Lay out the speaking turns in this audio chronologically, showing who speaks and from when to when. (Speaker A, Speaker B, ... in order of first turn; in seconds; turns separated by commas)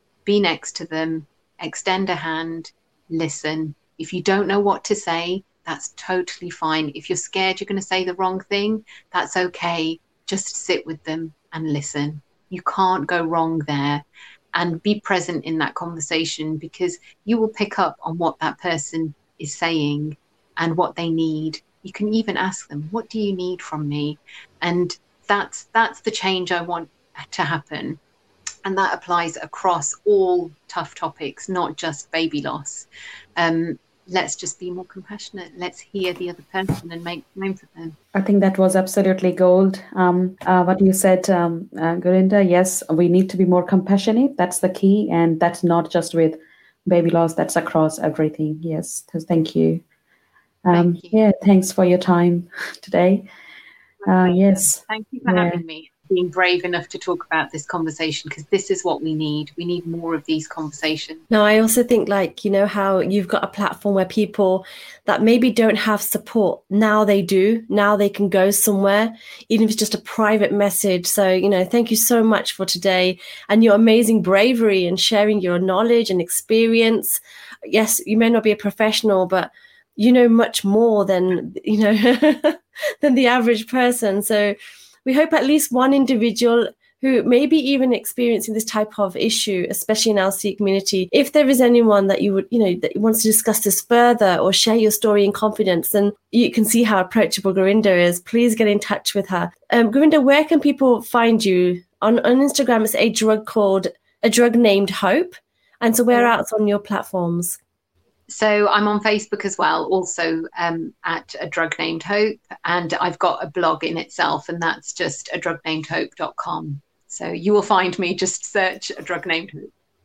Speaker A: 0.2-14.0, Speaker A: 14.5-28.0, Speaker A: 28.6-38.0, Speaker B: 38.1-49.8, Speaker B: 50.6-53.2, Speaker A: 50.7-51.2, Speaker A: 54.0-61.2, Speaker B: 54.0-55.6, Speaker C: 61.3-107.6, Speaker A: 108.3-119.7